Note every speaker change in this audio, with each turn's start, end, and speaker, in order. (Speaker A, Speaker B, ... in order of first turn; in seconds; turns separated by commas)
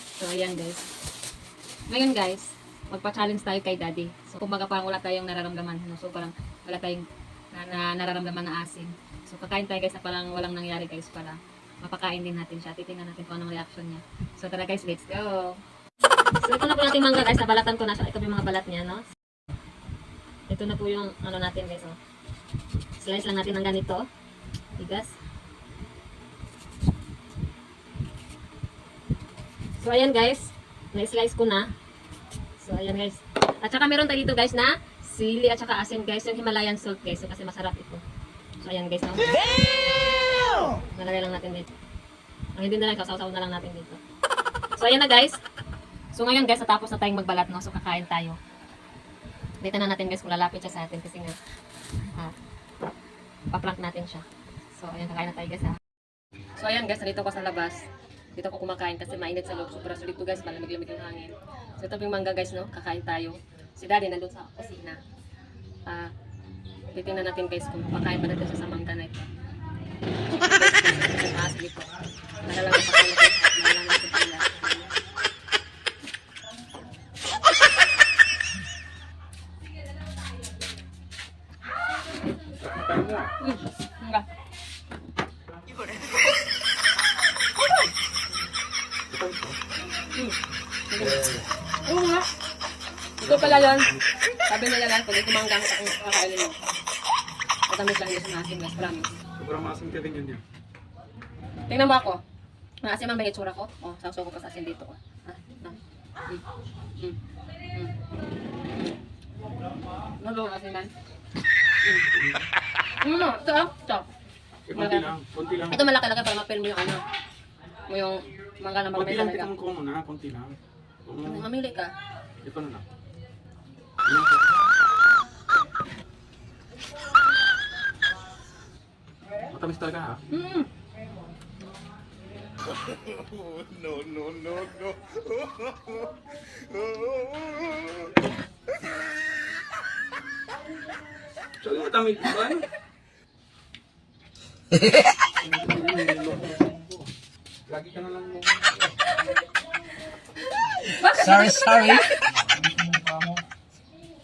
Speaker A: 0.2-0.9, Speaker A: 1.9-15.6, Speaker A: 16.4-19.1, Speaker A: 20.5-22.0, Speaker A: 23.0-24.1, Speaker A: 24.8-25.2, Speaker A: 29.8-31.7, Speaker A: 32.6-38.0, Speaker A: 38.6-39.4, Speaker A: 40.9-41.7, Speaker A: 42.6-44.0, Speaker A: 44.8-45.4, Speaker A: 46.1-48.4, Speaker A: 49.6-51.4, Speaker A: 53.5-55.8, Speaker A: 56.6-65.0, Speaker A: 65.9-66.1, Speaker A: 66.9-69.3, Speaker A: 70.3-71.9, Speaker A: 72.5-74.9, Speaker B: 82.6-83.3, Speaker A: 83.4-84.3, Speaker B: 89.1-89.6, Speaker A: 90.9-91.3, Speaker B: 91.0-91.4, Speaker A: 91.9-92.3, Speaker A: 93.2-93.9, Speaker B: 93.2-94.0, Speaker A: 94.5-96.6, Speaker A: 97.7-99.2, Speaker B: 99.4-100.4, Speaker A: 101.7-102.2, Speaker A: 102.8-106.4, Speaker A: 110.2-110.9, Speaker A: 111.8-112.1, Speaker B: 112.1-112.5, Speaker A: 113.0-114.1, Speaker B: 114.7-115.9, Speaker A: 114.7-115.1, Speaker A: 115.7-117.0, Speaker A: 117.9-119.5, Speaker B: 118.9-121.5, Speaker A: 121.2-121.9, Speaker B: 122.4-122.8, Speaker B: 124.0-124.4, Speaker B: 129.5-130.2, Speaker A: 130.3-130.7, Speaker C: 133.1-135.4, Speaker B: 141.6-142.7, Speaker B: 145.4-147.1, Speaker B: 147.7-148.8, Speaker A: 150.8-152.2